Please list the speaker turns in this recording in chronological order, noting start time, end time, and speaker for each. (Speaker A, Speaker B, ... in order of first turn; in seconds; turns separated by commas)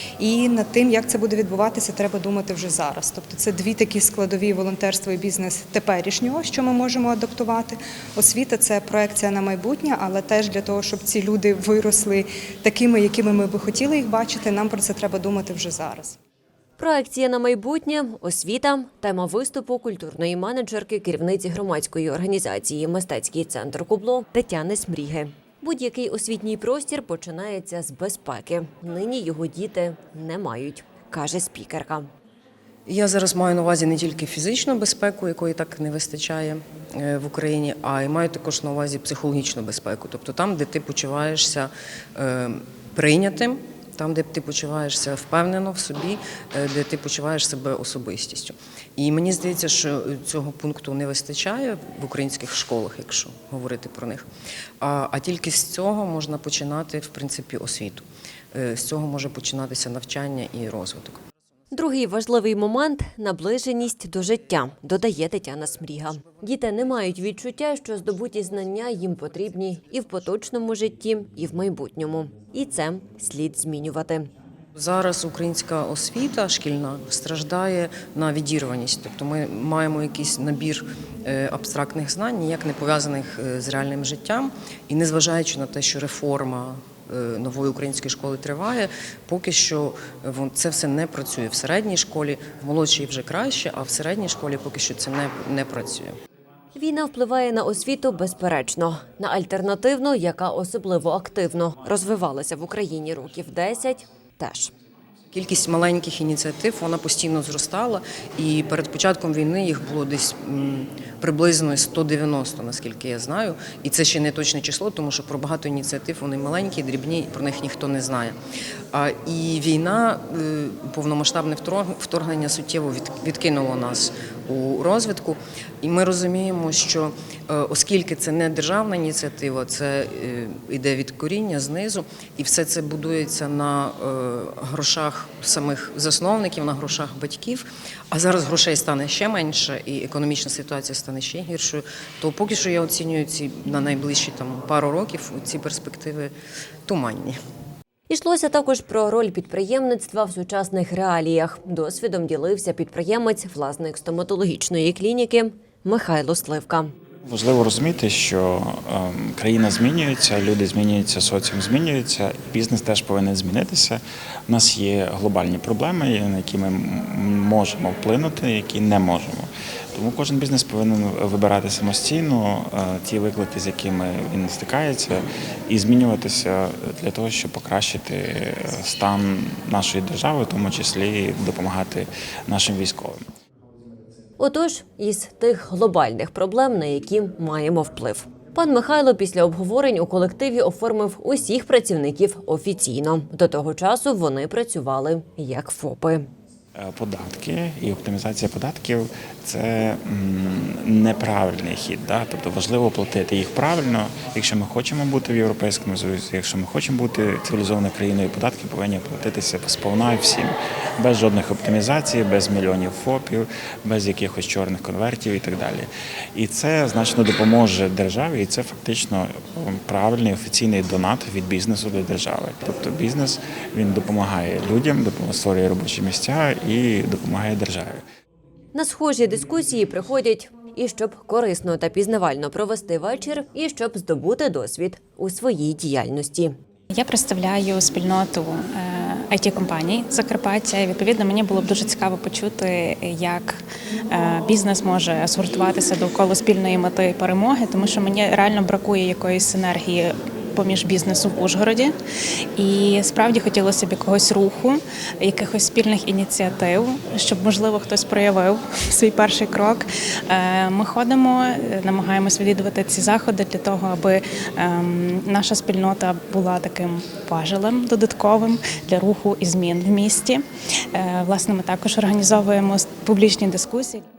Speaker A: 0.2-16.2, Speaker B: 16.8-32.1, Speaker C: 32.9-54.3, Speaker C: 54.8-61.2, Speaker B: 61.7-74.3, Speaker C: 74.8-96.2, Speaker B: 96.7-104.7, Speaker C: 105.3-118.4, Speaker C: 118.9-146.3, Speaker C: 146.9-147.4, Speaker B: 148.1-156.9, Speaker D: 157.2-183.2, Speaker B: 184.4-196.3, Speaker D: 196.8-228.0, Speaker B: 228.7-236.6, Speaker E: 236.9-251.9, Speaker E: 252.6-270.4, Speaker E: 270.9-274.0